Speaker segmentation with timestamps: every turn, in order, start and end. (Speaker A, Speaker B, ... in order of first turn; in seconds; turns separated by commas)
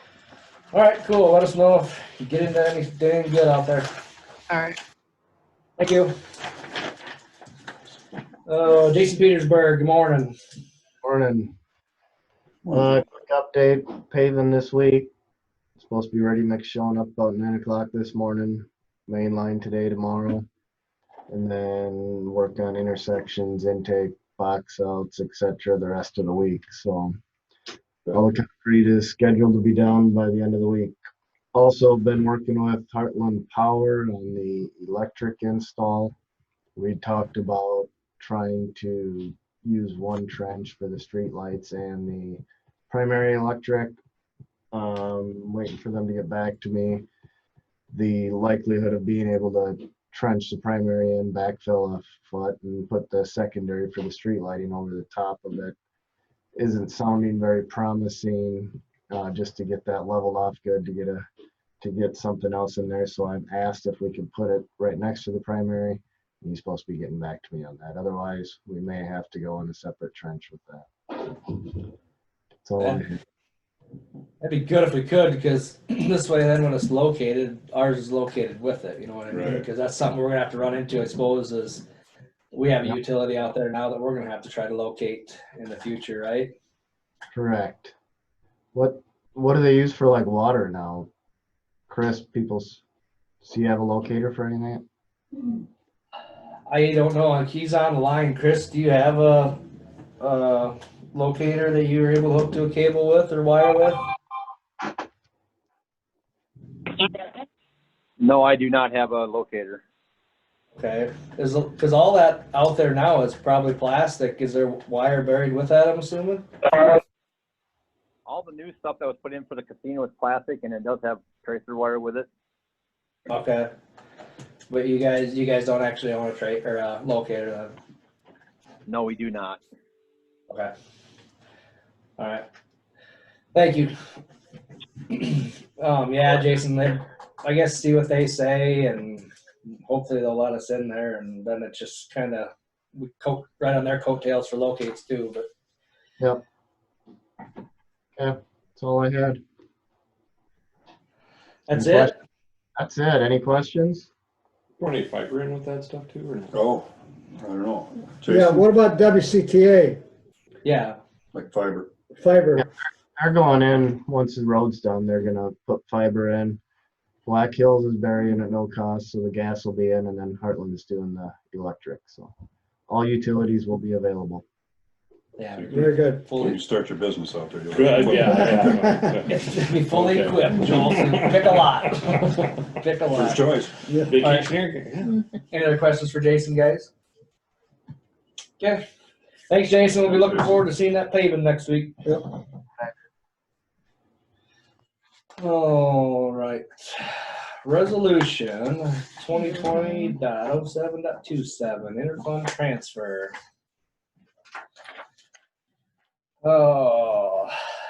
Speaker A: 0.7-3.9, Speaker A: 5.8-6.1, Speaker A: 8.5-10.3, Speaker B: 11.0-11.5, Speaker B: 12.7-15.1, Speaker B: 15.8-20.4, Speaker B: 21.3-27.2, Speaker B: 28.1-31.0, Speaker B: 31.5-36.1, Speaker B: 36.8-44.0, Speaker B: 44.7-47.0, Speaker B: 47.9-55.7, Speaker B: 56.5-61.2, Speaker B: 61.8-71.3, Speaker B: 72.6-73.2, Speaker A: 74.4-81.8, Speaker C: 79.3-79.6, Speaker A: 82.5-86.5, Speaker B: 87.3-87.9, Speaker B: 88.7-91.1, Speaker B: 91.9-92.8, Speaker B: 93.4-94.8, Speaker A: 96.7-99.6, Speaker A: 100.2-104.0, Speaker D: 108.2-109.8, Speaker A: 110.8-116.5, Speaker D: 118.2-122.3, Speaker A: 123.3-123.7, Speaker A: 124.7-127.7, Speaker D: 128.9-129.6, Speaker A: 132.2-132.4, Speaker A: 133.5-133.9, Speaker A: 135.1-145.5, Speaker B: 148.2-149.4, Speaker A: 151.7-152.1, Speaker B: 151.7-152.1, Speaker B: 152.8-154.1, Speaker E: 154.8-156.6, Speaker C: 156.5-158.7, Speaker F: 158.2-160.0, Speaker A: 160.6-161.0, Speaker C: 161.3-161.9, Speaker F: 162.1-162.6, Speaker B: 162.6-166.6, Speaker B: 167.2-172.3, Speaker B: 172.9-174.4, Speaker A: 175.3-176.6, Speaker F: 175.7-176.3, Speaker C: 175.7-178.8, Speaker E: 177.7-181.6, Speaker F: 178.3-179.1, Speaker A: 179.3-183.5, Speaker C: 183.1-183.8, Speaker F: 183.9-184.2, Speaker E: 184.0-185.2, Speaker A: 184.2-184.5, Speaker A: 185.5-186.9, Speaker A: 189.5-192.0, Speaker A: 195.4-203.3, Speaker A: 206.4-207.6